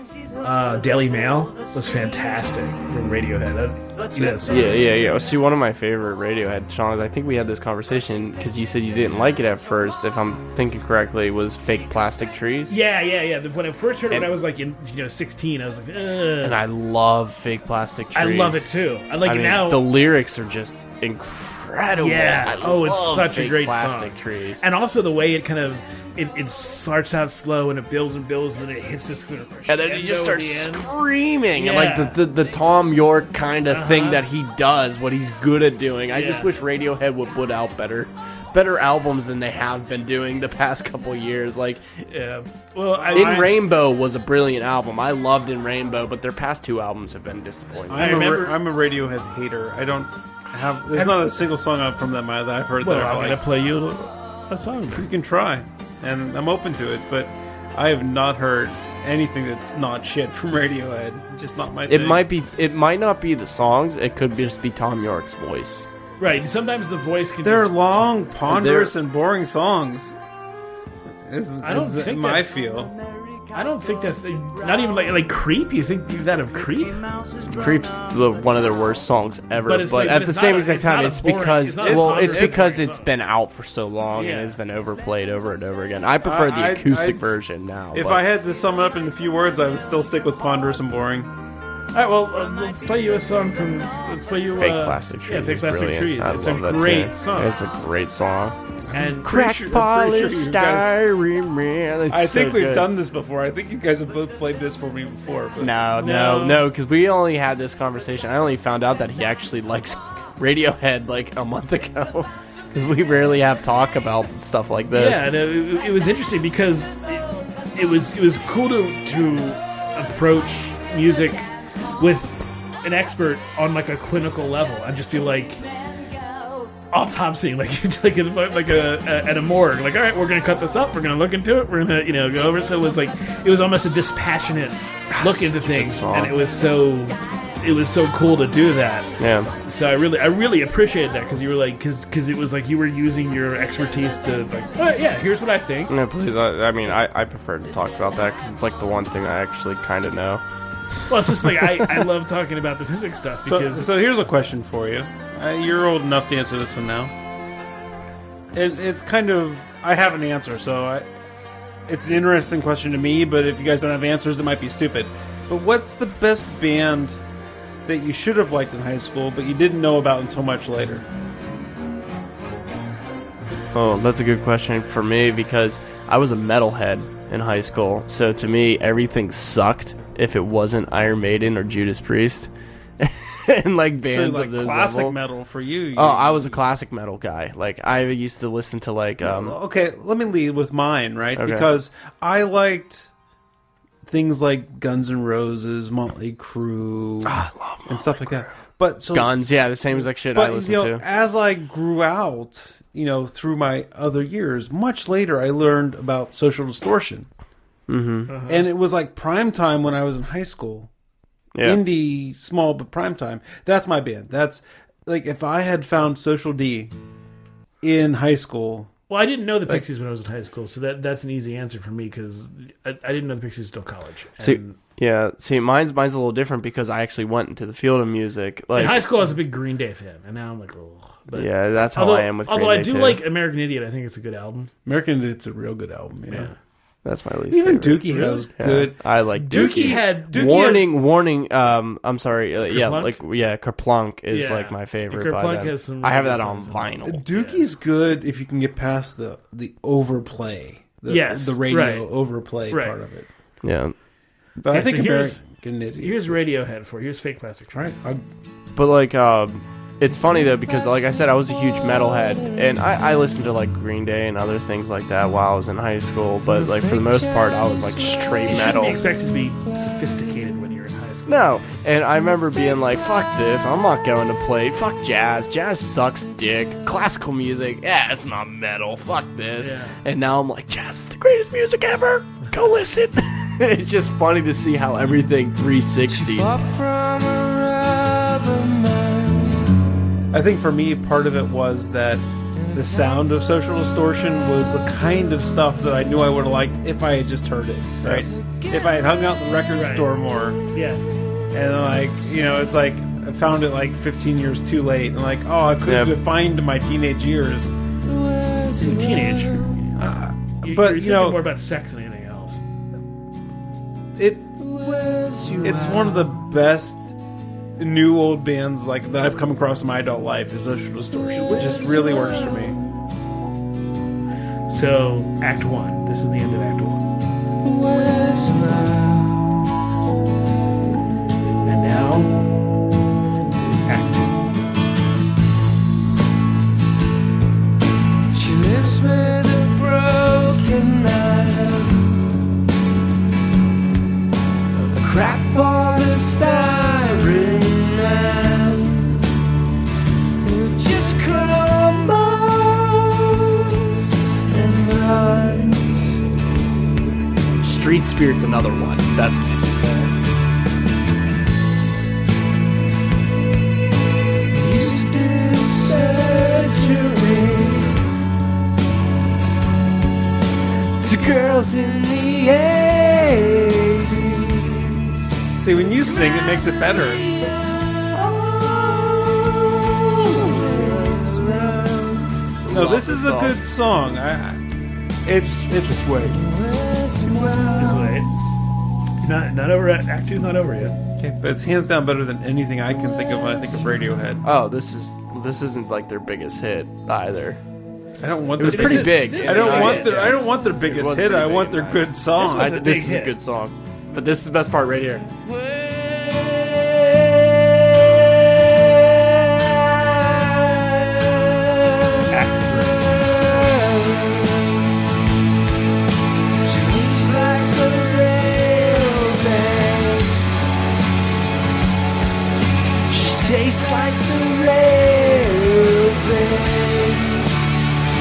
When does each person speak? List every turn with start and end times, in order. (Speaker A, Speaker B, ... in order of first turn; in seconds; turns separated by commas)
Speaker A: 0.4-4.8, Speaker B: 4.2-4.5, Speaker C: 4.5-12.8, Speaker A: 12.7-16.6, Speaker C: 16.4-18.7, Speaker A: 18.1-19.8, Speaker C: 19.2-24.6, Speaker A: 22.0-30.9, Speaker C: 29.7-41.8, Speaker A: 31.6-32.2, Speaker A: 33.7-34.2, Speaker A: 36.1-36.5, Speaker A: 42.1-43.5, Speaker B: 43.0-43.6, Speaker C: 43.1-48.2, Speaker B: 47.9-53.5, Speaker A: 47.9-48.6, Speaker A: 50.9-51.3, Speaker A: 52.8-55.0, Speaker B: 54.9-62.2, Speaker C: 61.9-65.9, Speaker A: 66.2-68.1, Speaker B: 67.4-70.2, Speaker C: 68.5-68.9, Speaker B: 71.3-72.9, Speaker A: 71.6-72.6, Speaker A: 73.5-77.0, Speaker C: 77.5-88.2, Speaker A: 79.6-83.1, Speaker B: 81.8-82.6, Speaker A: 84.2-84.6, Speaker B: 86.2-87.4, Speaker B: 87.9-91.3, Speaker A: 91.9-97.5, Speaker C: 94.6-98.6, Speaker B: 97.2-97.5, Speaker A: 98.9-99.4, Speaker B: 98.9-100.9, Speaker C: 99.2-102.9, Speaker B: 102.1-105.8, Speaker C: 105.6-115.3, Speaker A: 106.0-106.7, Speaker A: 114.9-125.6, Speaker A: 126.9-145.9, Speaker C: 135.1-136.3, Speaker C: 139.2-139.5, Speaker C: 145.9-150.4, Speaker A: 151.1-153.9, Speaker B: 153.5-157.1, Speaker B: 158.5-161.1, Speaker B: 161.9-167.2, Speaker B: 167.8-171.1, Speaker C: 173.7-185.2, Speaker B: 184.1-186.6, Speaker C: 186.0-189.6, Speaker B: 189.2-193.1, Speaker C: 191.4-191.7, Speaker B: 194.1-199.4, Speaker C: 197.2-198.5, Speaker C: 199.1-201.0, Speaker B: 200.2-207.3, Speaker C: 207.9-208.3, Speaker A: 208.3-208.6, Speaker B: 208.5-210.9, Speaker C: 211.6-211.8, Speaker B: 211.6-216.9, Speaker B: 217.8-218.9, Speaker A: 219.1-224.8, Speaker C: 224.4-229.1, Speaker A: 228.8-234.7, Speaker C: 231.3-233.2, Speaker B: 234.8-236.5, Speaker A: 236.3-236.6, Speaker C: 237.1-247.3, Speaker B: 237.5-240.9, Speaker A: 239.5-240.7, Speaker A: 242.7-243.2, Speaker A: 244.3-247.7, Speaker B: 247.0-253.3, Speaker A: 251.1-252.1, Speaker A: 252.7-252.9, Speaker C: 253.6-253.9, Speaker B: 254.6-256.4, Speaker A: 254.7-255.4, Speaker A: 256.0-258.0, Speaker C: 258.8-269.0, Speaker D: 266.8-268.1, Speaker A: 268.4-271.5, Speaker C: 271.3-286.5, Speaker A: 279.6-280.0, Speaker D: 286.1-289.8, Speaker B: 290.3-300.6, Speaker D: 292.6-293.2, Speaker D: 298.1-299.0, Speaker A: 299.7-300.1, Speaker A: 300.7-301.0, Speaker B: 301.5-307.7, Speaker C: 305.9-306.2, Speaker D: 308.1-309.9, Speaker A: 308.8-309.7, Speaker B: 309.9-311.4, Speaker A: 310.6-312.6, Speaker B: 314.2-314.5, Speaker D: 314.6-316.4, Speaker B: 315.6-317.2, Speaker B: 317.8-322.8, Speaker D: 321.2-322.8, Speaker A: 324.7-327.1, Speaker D: 327.6-329.6, Speaker A: 331.6-332.5, Speaker A: 333.7-334.4, Speaker D: 338.3-342.3, Speaker D: 344.9-349.2, Speaker D: 350.4-356.2, Speaker C: 357.6-359.5, Speaker D: 364.5-368.0, Speaker D: 371.0-375.2, Speaker B: 375.6-377.2, Speaker D: 376.0-382.3, Speaker C: 380.5-381.2, Speaker C: 382.6-383.6, Speaker B: 382.7-384.6, Speaker B: 385.2-386.4, Speaker D: 386.2-388.3, Speaker A: 387.8-388.3, Speaker A: 389.2-390.9, Speaker B: 391.2-394.4, Speaker C: 394.4-397.6, Speaker B: 398.2-403.0, Speaker C: 398.6-405.3, Speaker A: 398.6-400.4, Speaker A: 402.4-403.4, Speaker D: 405.4-411.1, Speaker A: 412.3-413.1, Speaker D: 413.0-414.6, Speaker D: 416.6-420.4, Speaker D: 423.1-427.5